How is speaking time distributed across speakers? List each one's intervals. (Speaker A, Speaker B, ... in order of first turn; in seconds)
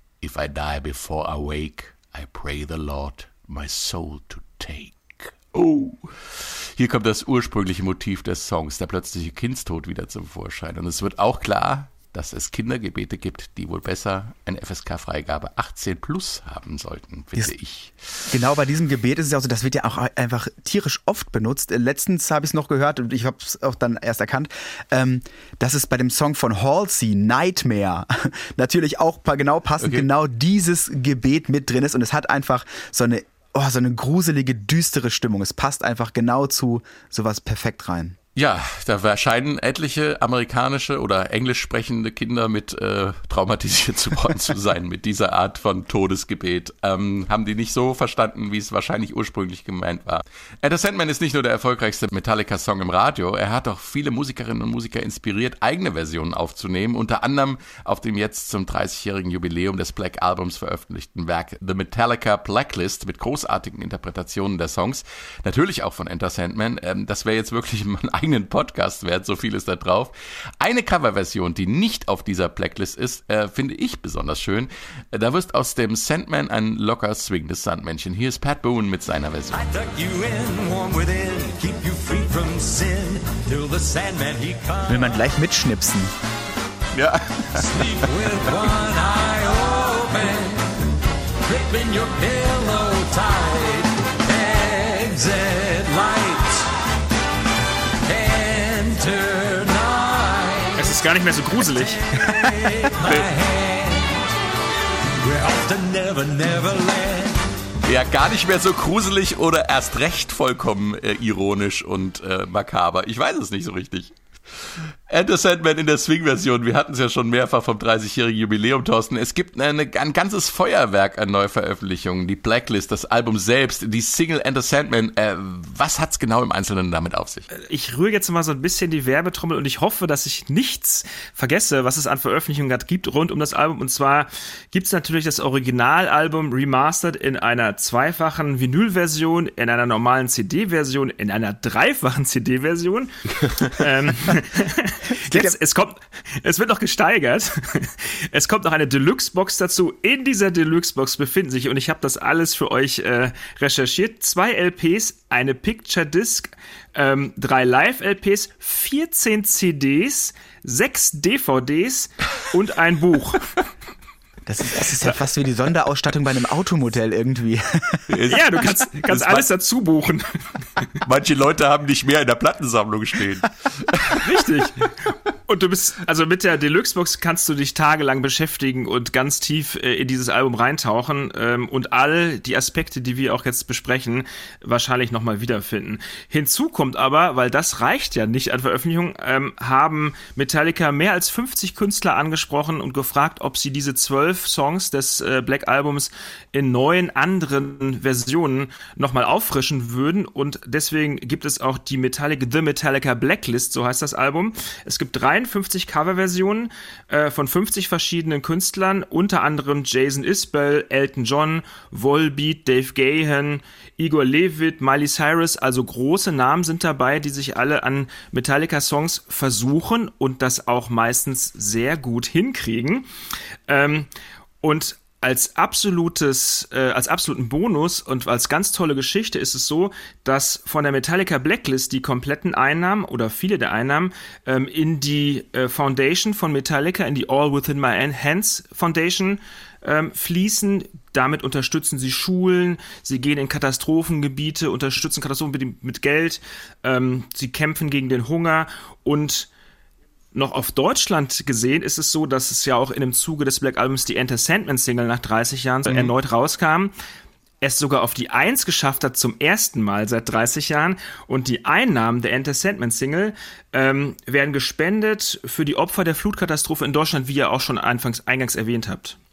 Speaker A: 0.2-18.2, 29.8-30.1, 38.3-79.6, 86.9-88.1, 103.0-103.3, 107.8-127.5, 168.1-169.5, 171.0-174.2, 255.9-256.1
Speaker B: 18.3-38.2, 84.9-86.1, 102.3-102.7, 145.2-145.5, 164.5-168.2
Speaker C: 79.5-85.1, 87.5-90.7, 91.4-96.7, 98.0-100.8, 102.2-104.2, 105.1-107.4
Speaker D: 100.8-102.0, 127.5-163.5, 168.3-170.3, 174.1-174.9, 175.5-223.1, 223.7-224.1, 224.6-249.5, 250.3-256.9, 257.6-269.2